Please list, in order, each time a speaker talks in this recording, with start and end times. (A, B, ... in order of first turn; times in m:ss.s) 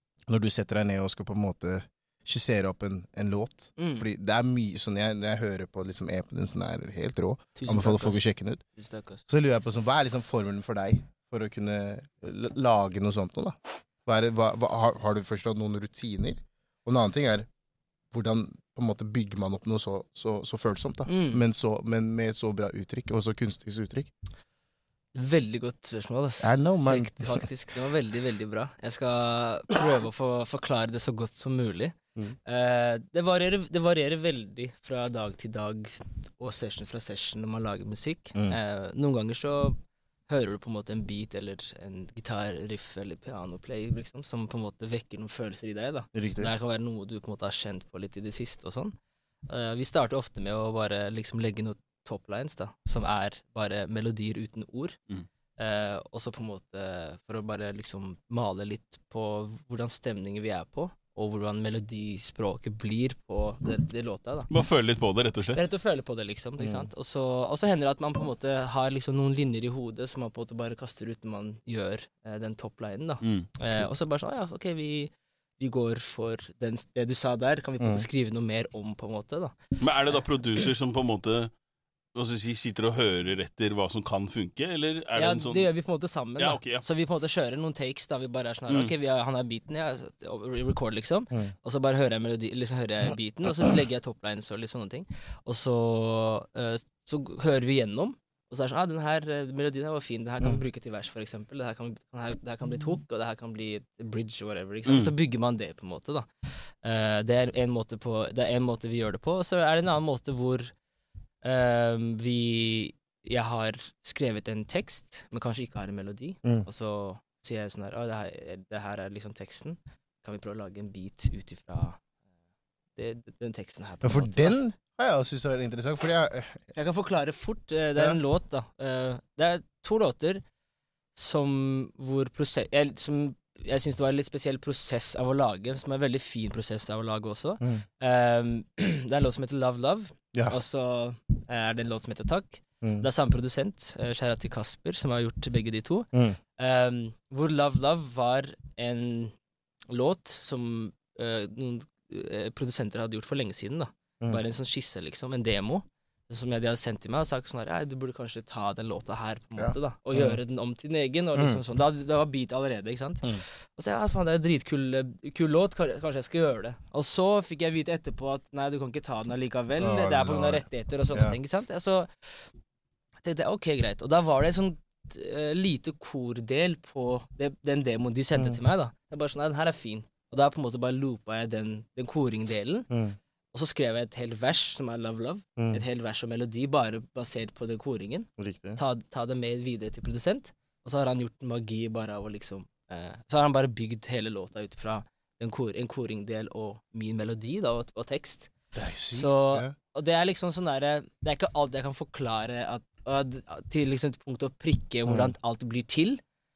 0:00.3-0:08.6 A
0:03.8-0:04.0 B
0:07.6-0:09.2 B
0:09.3-0:17.5 A
0:18.1-0:24.1 A
0:21.1-0:21.4 B
0:25.1-0:49.0 B
0:26.4-0:27.4 A
0:46.1-0:46.5 A
0:49.5-0:55.0 B
0:55.6-1:04.5 B
1:04.5-1:05.6 C
1:05.6-1:20.2 B
1:06.6-1:06.9 A
1:13.2-1:13.5 C
1:17.8-1:18.0 A
1:19.8-1:21.5 C
1:22.2-1:25.7 C
1:25.2-1:50.7 B
1:26.4-1:26.8 C
1:44.9-1:45.1 C
1:51.4-2:02.0 B
2:03.0-2:04.6 B
2:04.0-2:06.7 A
2:06.7-2:10.4 B
2:11.2-2:29.4 B
2:22.8-2:23.1 A
2:26.1-2:26.4 A
2:29.9-2:52.5 B
2:39.6-2:40.4 A
2:41.4-2:41.6 A
2:49.8-2:51.4 A
2:53.2-3:02.9 B
3:02.9-3:03.2 A
3:03.5-3:18.5 B
3:05.6-3:05.8 A
3:08.4-3:08.8 A
3:18.7-3:19.7 A
3:19.1-3:26.2 B
3:25.1-3:25.3 A